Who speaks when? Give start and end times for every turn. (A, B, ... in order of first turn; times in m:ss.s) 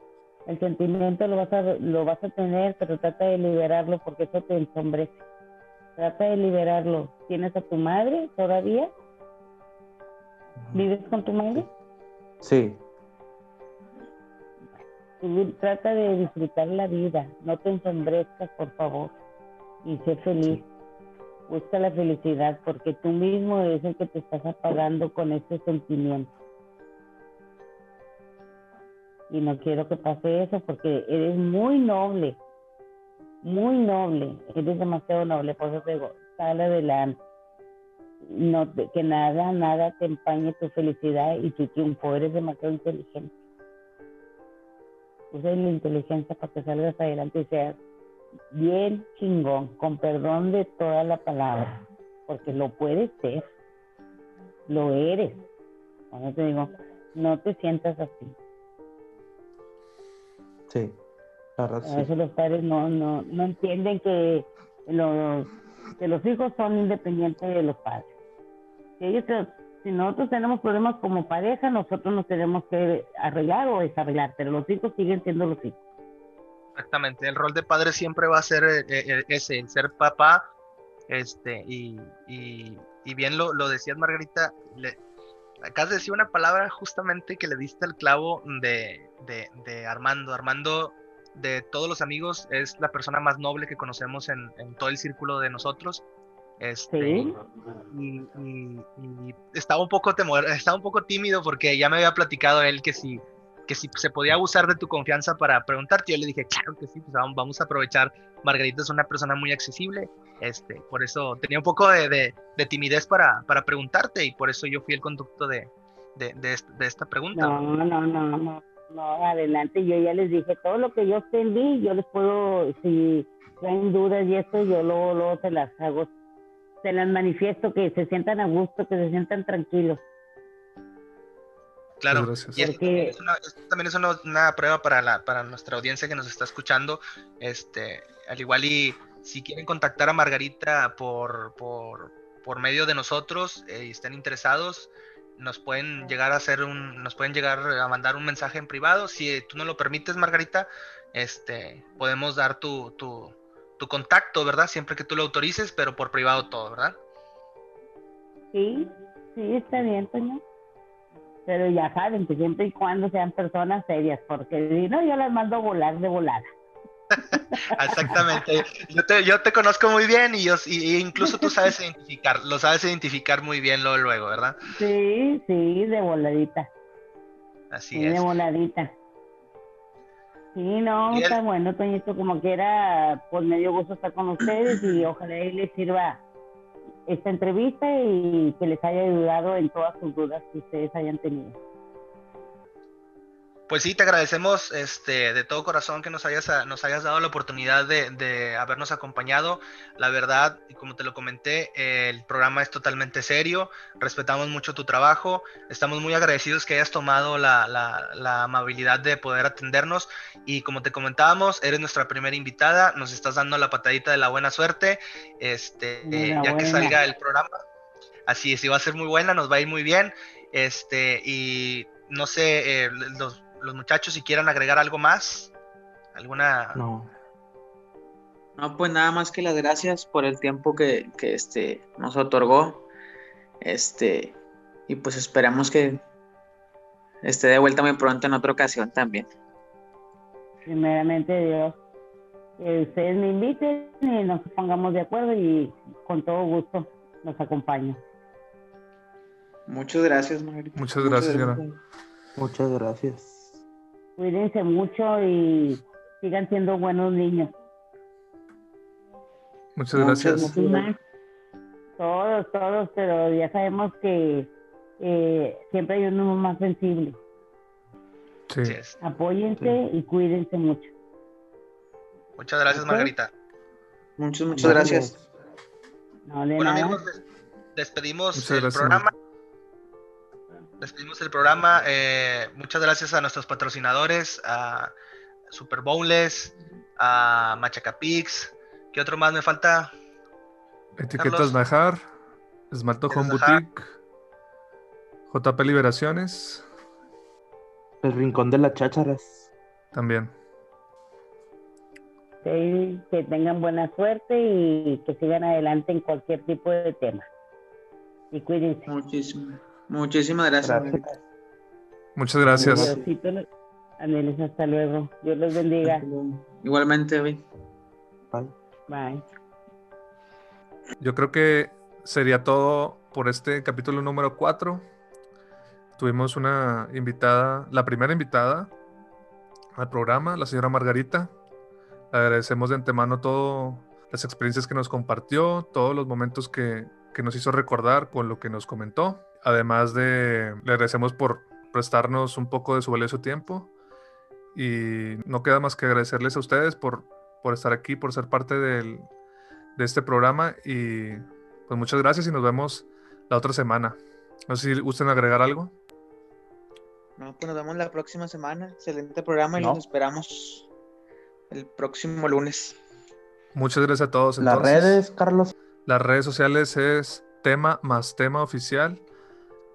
0:00.4-0:05.2 A
0:06.0-0:08.9 A
0:10.7-0:11.7 A
0:12.4-0:12.8 B
0:15.2-0:19.1 A
0:19.8-0:20.6 A
0:21.5-0:26.3 A
0:29.3-0:32.4 A
0:33.4-0:37.2 A
0:38.2-0:43.3 A
0:45.3-0:47.8 A
0:48.5-0:51.7 A
0:52.3-0:53.5 A
0:54.7-0:55.5 A
0:56.1-0:58.4 A
1:00.7-1:01.0 B
1:01.6-1:02.1 B
1:01.8-1:08.1 A
1:09.0-1:15.8 A
1:16.8-1:20.4 C
1:21.1-1:25.0 C
1:25.6-1:36.0 C
1:36.6-1:37.3 C
1:36.9-1:37.3 A
1:37.9-1:57.6 C
1:57.3-2:06.1 A
2:06.8-2:10.0 A
2:12.0-2:37.0 C
2:12.1-2:12.6 D
2:12.6-2:13.2 A
2:38.5-2:40.4 A
2:41.4-2:46.5 A
2:47.3-2:48.4 A
2:47.3-2:54.6 C
2:51.2-2:51.7 A
2:54.7-2:56.7 A
2:57.7-2:58.3 C
2:57.9-2:58.9 A
3:00.5-3:06.2 A
3:01.1-3:01.4 C
3:07.1-3:11.6 A
3:13.7-3:37.5 C
3:36.0-3:37.0 A
3:38.3-3:45.5 C
3:46.1-3:46.8 C
3:46.7-3:47.1 B
3:48.6-3:52.8 E
3:53.6-3:54.4 E
3:54.9-3:56.0 E
3:57.2-3:59.3 E
4:00.6-4:01.8 A
4:02.6-4:08.0 A
4:09.7-4:11.8 E
4:10.8-4:11.6 D
4:12.4-4:13.6 B
4:14.2-4:17.5 A
4:19.8-4:20.5 D
4:19.9-4:20.9 E
4:20.3-4:20.9 A
4:22.0-4:27.2 A
4:28.5-4:28.8 D
4:28.6-4:29.0 C
4:29.0-4:30.9 A
4:32.4-4:33.3 C
4:32.7-4:33.1 A
4:34.2-4:35.1 E
4:34.6-4:35.1 A
4:34.6-4:35.2 B
4:36.2-4:37.0 A
4:36.6-4:37.2 C
4:37.8-4:39.1 C
4:38.3-4:39.1 D
4:40.8-4:44.9 C
4:45.5-4:49.9 C
4:51.0-4:52.0 D
4:51.2-4:51.6 C
4:52.7-4:53.9 D
4:53.1-4:53.6 C
4:55.3-4:56.6 D
4:58.0-4:59.4 B
4:59.9-5:00.3 D
5:02.4-5:07.3 A
5:08.3-5:08.9 A
5:08.9-5:11.1 E
5:10.6-5:11.1 B
5:12.2-5:12.9 D
5:12.5-5:13.0 E
5:12.6-5:13.4 A
5:14.0-5:16.1 A
5:15.8-5:17.4 E
5:18.9-5:19.2 A
5:21.0-5:24.8 D
5:26.0-5:28.7 D
5:29.7-5:31.3 D
5:32.1-5:43.7 D
5:44.5-5:49.1 D
5:49.8-5:55.7 D
5:57.2-6:00.7 E
5:59.6-5:59.8 B
6:01.5-6:02.8 E
6:03.5-6:05.0 D
6:04.4-6:05.5 B
6:05.8-6:09.0 D